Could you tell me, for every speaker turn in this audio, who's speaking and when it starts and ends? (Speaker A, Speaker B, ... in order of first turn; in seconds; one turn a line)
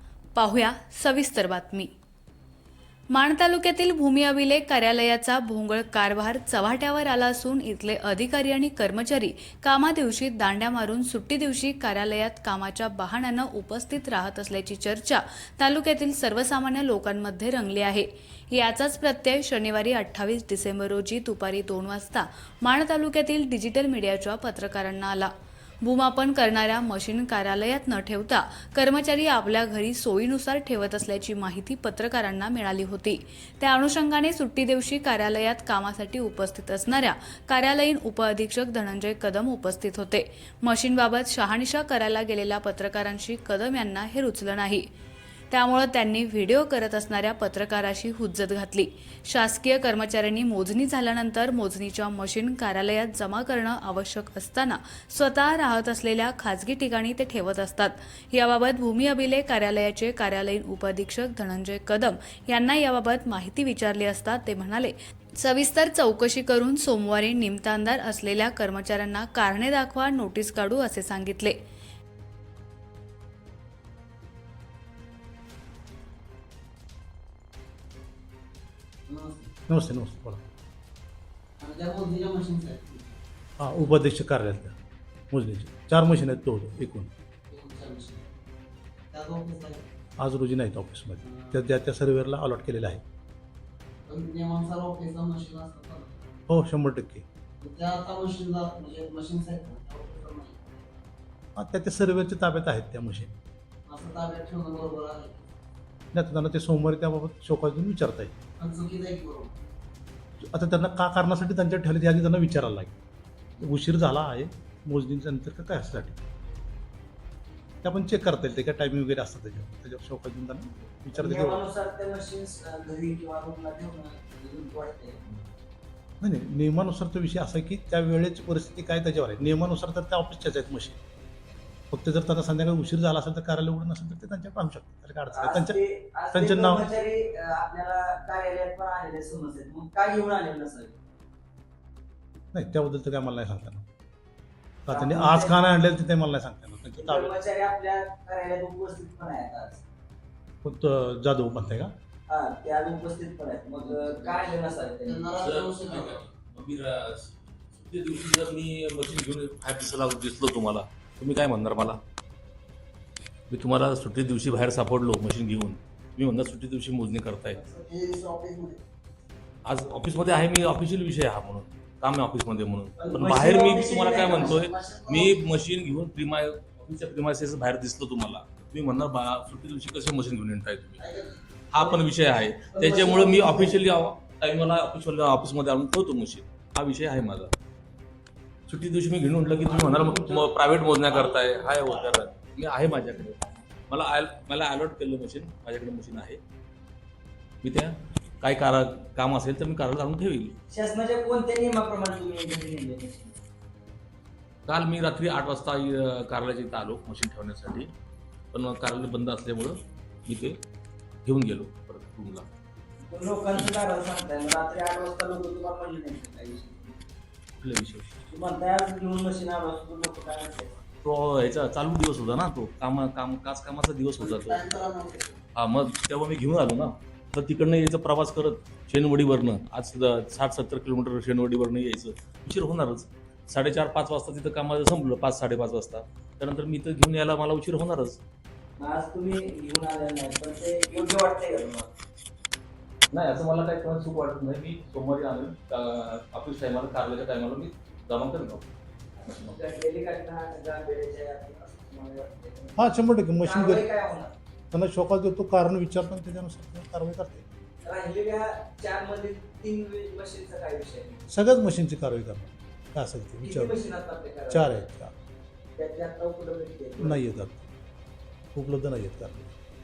Speaker A: 0.3-1.9
Speaker A: 3.1-25.3
Speaker A: 25.8-44.9
Speaker A: 45.5-71.6
Speaker B: 79.1-79.5
Speaker C: 79.7-80.4
Speaker B: 81.6-83.2
Speaker C: 83.6-84.8
Speaker C: 85.3-87.1
Speaker B: 87.5-88.2
Speaker B: 89.1-89.9
Speaker C: 90.2-93.0
Speaker B: 91.2-91.6
Speaker B: 94.0-96.4
Speaker C: 96.5-97.2
Speaker B: 97.6-100.9
Speaker C: 101.5-103.3
Speaker B: 103.8-105.5
Speaker C: 106.1-108.3
Speaker B: 108.6-109.5
Speaker C: 110.4-113.0
Speaker C: 113.6-116.2
Speaker C: 117.8-121.6
Speaker D: 121.2-125.2
Speaker C: 126.2-131.0
Speaker C: 131.9-135.8
Speaker D: 135.3-141.0
Speaker C: 136.3-136.8
Speaker C: 142.5-143.8
Speaker C: 144.8-147.3
Speaker D: 144.9-145.5
Speaker D: 147.0-149.8
Speaker C: 150.6-151.9
Speaker D: 152.3-155.4
Speaker B: 153.8-156.2
Speaker E: 155.4-162.0
Speaker E: 163.5-167.6
Speaker B: 167.4-168.8
Speaker E: 169.6-181.0
Speaker D: 173.0-174.6
Speaker B: 173.0-175.5
Speaker B: 181.0-182.0
Speaker E: 181.7-187.5
Speaker B: 182.8-183.8
Speaker E: 188.7-196.4
Speaker D: 189.8-192.1
Speaker E: 197.6-200.5
Speaker D: 200.7-203.3
Speaker E: 204.7-207.9
Speaker E: 208.5-210.5
Speaker E: 211.2-212.5
Speaker D: 213.1-217.0
Speaker E: 217.6-218.1
Speaker D: 218.3-220.7
Speaker E: 221.0-224.7
Speaker B: 224.2-225.4
Speaker E: 225.6-238.2
Speaker D: 238.8-241.9
Speaker E: 243.1-248.7
Speaker E: 249.2-249.5
Speaker D: 249.4-254.3
Speaker C: 252.8-253.9
Speaker C: 254.7-257.5
Speaker D: 257.8-261.2
Speaker C: 261.3-263.7
Speaker D: 263.4-264.7
Speaker C: 264.5-265.1
Speaker D: 265.8-267.2
Speaker C: 267.0-267.6
Speaker C: 268.5-269.5